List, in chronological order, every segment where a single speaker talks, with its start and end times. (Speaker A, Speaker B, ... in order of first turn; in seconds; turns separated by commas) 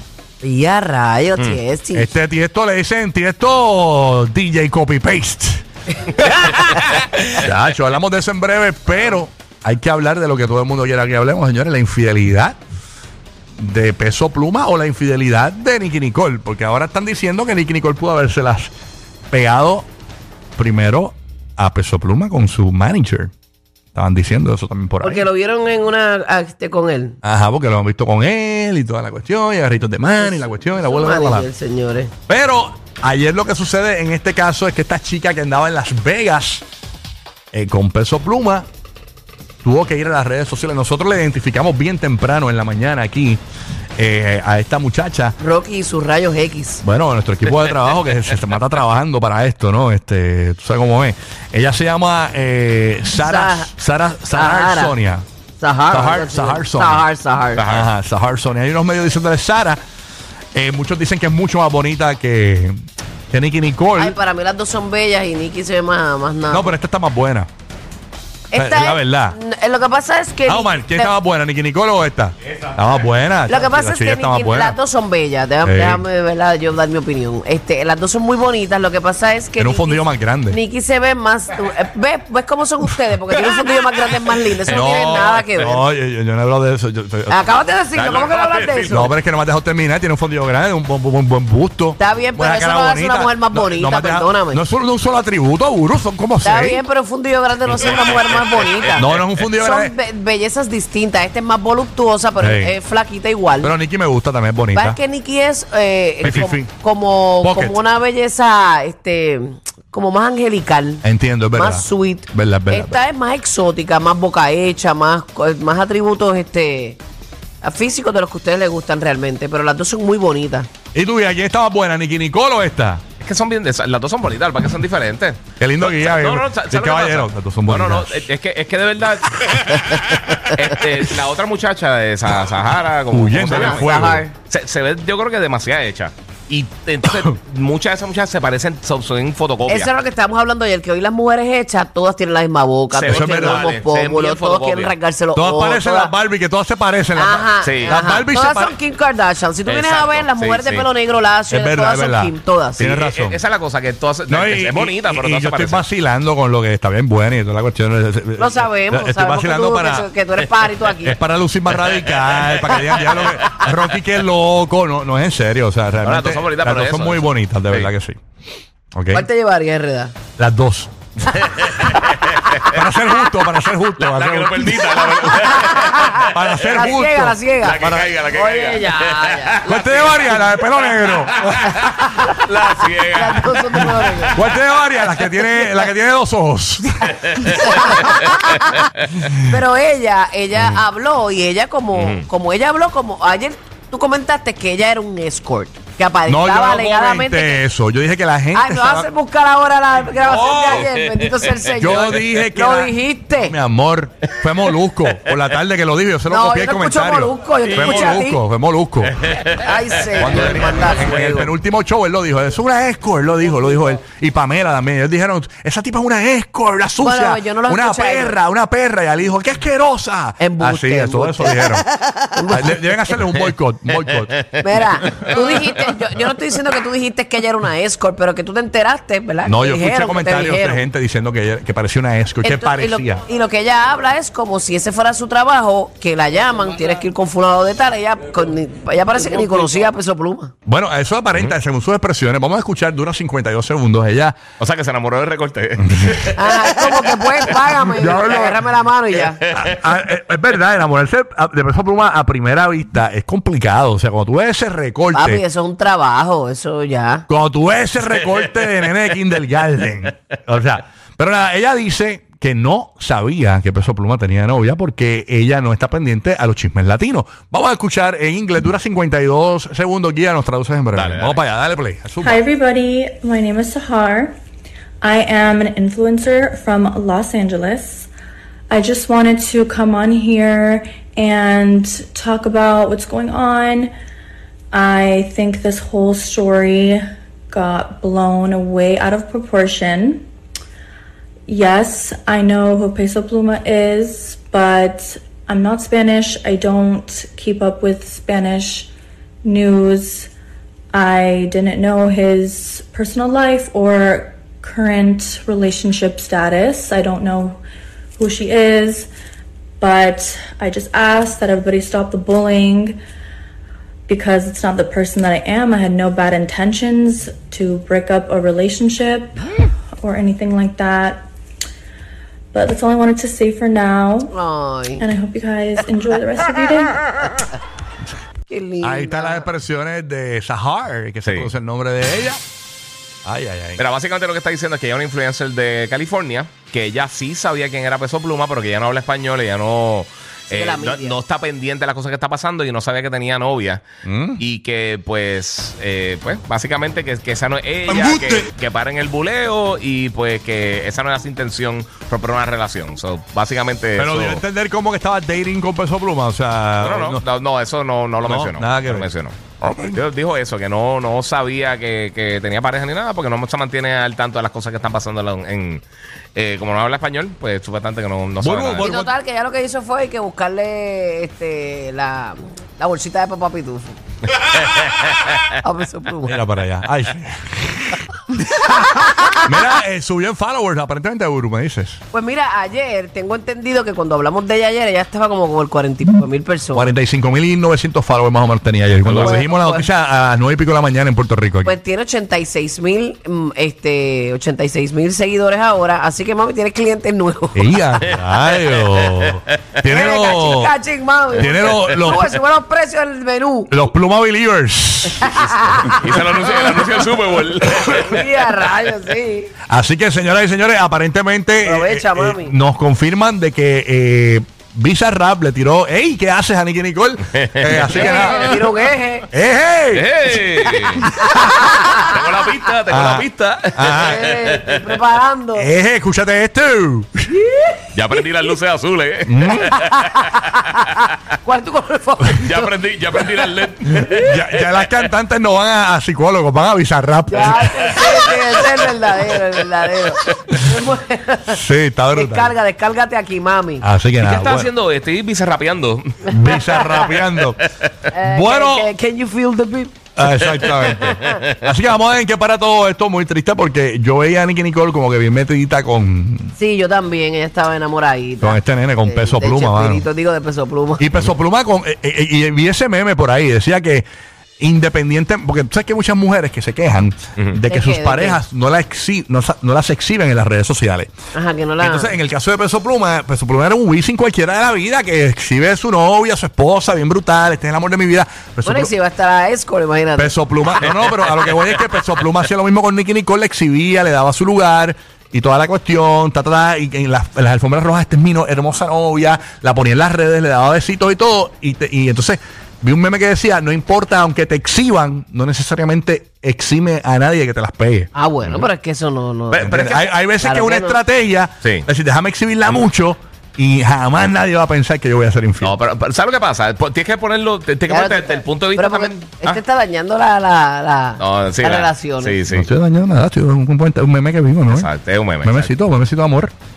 Speaker A: 0.4-2.1, Speaker B: 1.9-5.6, Speaker A: 6.2-6.8, Speaker B: 7.3-12.6, Speaker B: 13.6-18.7, Speaker B: 19.3-19.9, Speaker B: 20.6-23.3, Speaker B: 23.9-25.3, Speaker A: 25.0-27.2, Speaker B: 27.2-31.5, Speaker A: 30.2-32.1, Speaker B: 32.3-36.6, Speaker B: 37.5-38.7, Speaker B: 39.6-43.4, Speaker B: 44.0-45.4, Speaker A: 45.4-46.8, Speaker B: 46.8-55.3, Speaker A: 53.1-53.7, Speaker A: 54.3-55.0, Speaker A: 55.6-57.6, Speaker B: 55.9-57.1, Speaker C: 57.5-57.9, Speaker B: 57.6-59.8, Speaker B: 60.5-62.8, Speaker B: 63.3-64.2, Speaker A: 64.0-66.8, Speaker B: 66.5-67.5, Speaker A: 68.5-71.1, Speaker B: 68.5-69.4, Speaker B: 70.5-74.8, Speaker A: 73.5-85.8, Speaker B: 75.6-76.0, Speaker B: 79.6-80.6, Speaker B: 84.6-87.4, Speaker C: 84.8-85.3, Speaker A: 87.3-89.1, Speaker C: 87.9-89.0, Speaker B: 88.9-96.8, Speaker A: 92.0-94.7, Speaker A: 96.4-103.7, Speaker C: 97.8-98.4, Speaker B: 98.9-99.9, Speaker B: 102.4-102.8, Speaker B: 103.6-105.0, Speaker A: 104.7-111.0, Speaker B: 106.2-106.7, Speaker B: 107.4-107.8, Speaker B: 111.0-113.0, Speaker A: 111.5-117.0, Speaker A: 117.6-120.7, Speaker B: 120.9-123.0, Speaker C: 123.2-139.9, Speaker B: 125.6-128.3, Speaker A: 129.9-130.5, Speaker B: 133.1-134.2, Speaker A: 133.5-134.3, Speaker A: 139.7-146.1, Speaker C: 142.9-144.9, Speaker B: 143.1-143.7, Speaker B: 145.3-148.8, Speaker A: 147.2-152.8, Speaker C: 147.6-148.0, Speaker C: 149.7-150.9, Speaker B: 151.5-153.4, Speaker C: 152.8-155.8, Speaker B: 154.3-160.1, Speaker A: 158.4-161.2, Speaker B: 161.0-168.2, Speaker A: 162.8-163.2, Speaker C: 166.0-167.9, Speaker B: 168.9-169.3, Speaker A: 169.1-170.2, Speaker B: 170.4-170.9, Speaker C: 171.4-172.8, Speaker B: 172.6-174.9, Speaker C: 174.0-176.9, Speaker A: 175.1-179.8, Speaker B: 176.1-178.1, Speaker C: 177.6-184.4, Speaker B: 179.7-182.1, Speaker A: 183.1-184.4, Speaker B: 184.3-187.3, Speaker C: 187.2-188.8, Speaker A: 187.4-188.9, Speaker A: 189.4-197.6, Speaker C: 191.9-192.3, Speaker B: 196.3-199.1, Speaker A: 198.5-203.6, Speaker C: 200.3-201.4, Speaker B: 201.8-209.3, Speaker A: 206.3-208.4, Speaker C: 207.8-208.0, Speaker C: 209.2-209.7, Speaker A: 209.4-211.5, Speaker B: 210.2-221.9, Speaker A: 217.0-218.4, Speaker A: 220.4-223.2, Speaker B: 222.5-224.5, Speaker A: 224.6-230.9, Speaker B: 225.1-225.6, Speaker B: 229.4-233.2, Speaker A: 232.4-240.5, Speaker B: 240.7-244.4, Speaker C: 244.6-247.6, Speaker B: 245.8-246.3, Speaker A: 246.4-249.4, Speaker B: 247.8-248.6, Speaker C: 249.1-249.9, Speaker B: 249.5-255.4, Speaker A: 255.1-257.2, Speaker B: 257.3-272.4, Speaker C: 270.9-271.4, Speaker D: 272.2-274.3, Speaker D: 275.0-278.1, Speaker D: 278.7-283.9, Speaker D: 284.7-290.2, Speaker D: 291.5-298.9, Speaker D: 299.4-300.3, Speaker D: 300.9-307.6, Speaker D: 308.2-309.1, Speaker D: 309.8-313.0, Speaker D: 314.1-319.5, Speaker D: 320.0-321.3, Speaker D: 322.5-324.4, Speaker A: 324.3-325.1, Speaker D: 325.0-327.1, Speaker A: 328.5-329.5, Speaker B: 328.8-332.4, Speaker B: 333.2-333.8, Speaker C: 333.8-343.8, Speaker A: 340.5-341.2, Speaker B: 344.0-344.4, Speaker C: 344.4-354.4, Speaker B: 347.9-348.5, Speaker B: 354.0-357.2, Speaker C: 356.8-365.8, Speaker B: 358.2-359.1, Speaker B: 359.6-360.0, Speaker C: 366.4-368.9, Speaker B: 368.4-369.1, Speaker A: 368.8-374.0, Speaker C: 374.3-375.6, Speaker A: 375.6-376.4, Speaker B: 376.3-378.7, Speaker B: 379.2-382.0, Speaker A: 382.1-386.9, Speaker B: 386.7-391.8, Speaker C: 389.0-389.5, Speaker A: 389.2-389.9, Speaker A: 391.6-397.8, Speaker B: 397.6-400.8, Speaker C: 398.2-399.6, Speaker A: 399.9-403.7, Speaker B: 401.3-402.3, Speaker C: 401.5-402.2, Speaker B: 403.7-406.0, Speaker A: 405.2-407.0, Speaker C: 405.8-408.2, Speaker A: 408.0-409.5, Speaker B: 409.7-418.7, Speaker A: 411.6-412.6, Speaker C: 417.4-418.6, Speaker A: 417.8-419.3, Speaker B: 419.3-420.1, Speaker C: 419.9-421.1, Speaker A: 421.1-422.1, Speaker B: 421.2-421.6, Speaker C: 421.7-425.0, Speaker B: 422.9-424.3, Speaker A: 423.8-425.7, Speaker B: 425.6-427.3, Speaker A: 427.4-427.8, Speaker C: 427.9-430.9, Speaker B: 429.2-429.8, Speaker A: 429.7-433.5, Speaker C: 432.4-434.8, Speaker B: 433.9-438.4, Speaker A: 437.3-441.6, Speaker C: 437.6-438.3, Speaker B: 441.5-442.5, Speaker A: 442.1-443.8, Speaker B: 443.8-444.7, Speaker C: 444.2-446.6, Speaker B: 446.3-447.6, Speaker A: 446.5-447.1, Speaker C: 447.3-447.9, Speaker A: 448.1-451.4, Speaker B: 448.2-448.9, Speaker B: 450.2-456.5, Speaker C: 450.8-451.4, Speaker A: 456.6-461.0, Speaker B: 458.4-460.1, Speaker B: 461.0-464.1, Speaker B: 464.6-471.1, Speaker A: 467.7-468.4, Speaker A: 471.3-472.2, Speaker B: 471.8-478.9, Speaker A: 478.6-480.4, Speaker B: 480.2-498.1, Speaker C: 480.9-481.4, Speaker A: 498.1-501.0, Speaker C: 498.4-498.7, Speaker B: 499.5-505.8, Speaker C: 499.5-500.0, Speaker C: 505.6-509.6, Speaker A: 507.9-512.4, Speaker C: 511.2-512.7, Speaker B: 512.5-514.9, Speaker C: 514.7-515.7, Speaker B: 515.4-516.5